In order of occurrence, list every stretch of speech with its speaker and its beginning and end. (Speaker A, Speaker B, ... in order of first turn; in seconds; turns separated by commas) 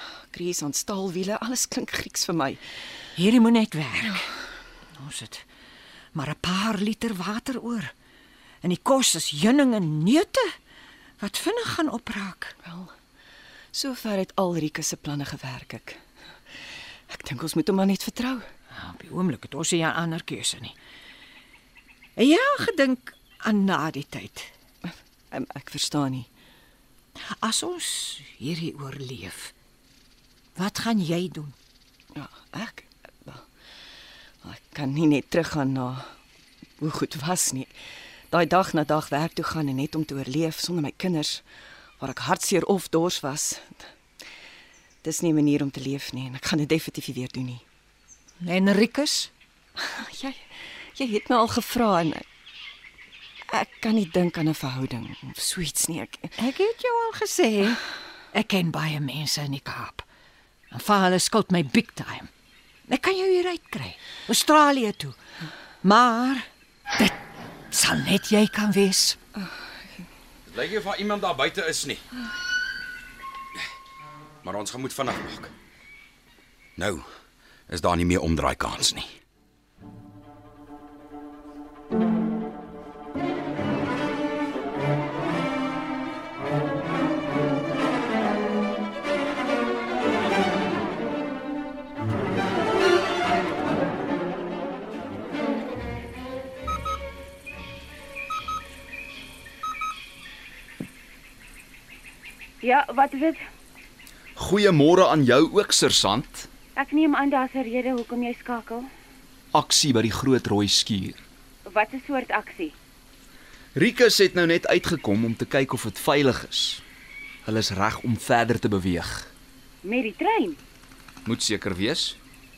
Speaker A: 0.3-2.6, Speaker B: 3.1-4.2, Speaker B: 5.0-5.5, Speaker B: 6.1-7.9, Speaker B: 8.6-10.5, Speaker B: 11.2-12.5, Speaker A: 12.6-12.9, Speaker A: 13.7-16.0, Speaker A: 17.1-18.5, Speaker B: 18.7-20.8, Speaker B: 22.2-24.5, Speaker A: 24.9-26.3, Speaker B: 27.4-29.5, Speaker B: 30.6-31.5, Speaker A: 32.1-33.4, Speaker A: 34.4-36.1, Speaker A: 36.8-37.7, Speaker A: 38.3-41.4, Speaker A: 42.0-43.9, Speaker A: 45.0-47.6, Speaker B: 48.4-49.3, Speaker A: 49.8-52.2, Speaker A: 53.5-56.3, Speaker B: 56.4-60.0, Speaker B: 60.7-62.3, Speaker B: 62.9-65.1, Speaker B: 65.8-67.1, Speaker B: 67.7-69.2, Speaker C: 70.5-72.0, Speaker C: 74.4-75.5, Speaker C: 76.8-77.0, Speaker C: 77.7-79.1, Speaker D: 102.6-103.4, Speaker E: 104.3-106.5, Speaker D: 106.8-108.9, Speaker E: 109.5-111.2, Speaker D: 111.7-112.7, Speaker E: 113.7-116.8, Speaker E: 117.4-119.3, Speaker D: 119.8-120.6, Speaker E: 121.2-122.2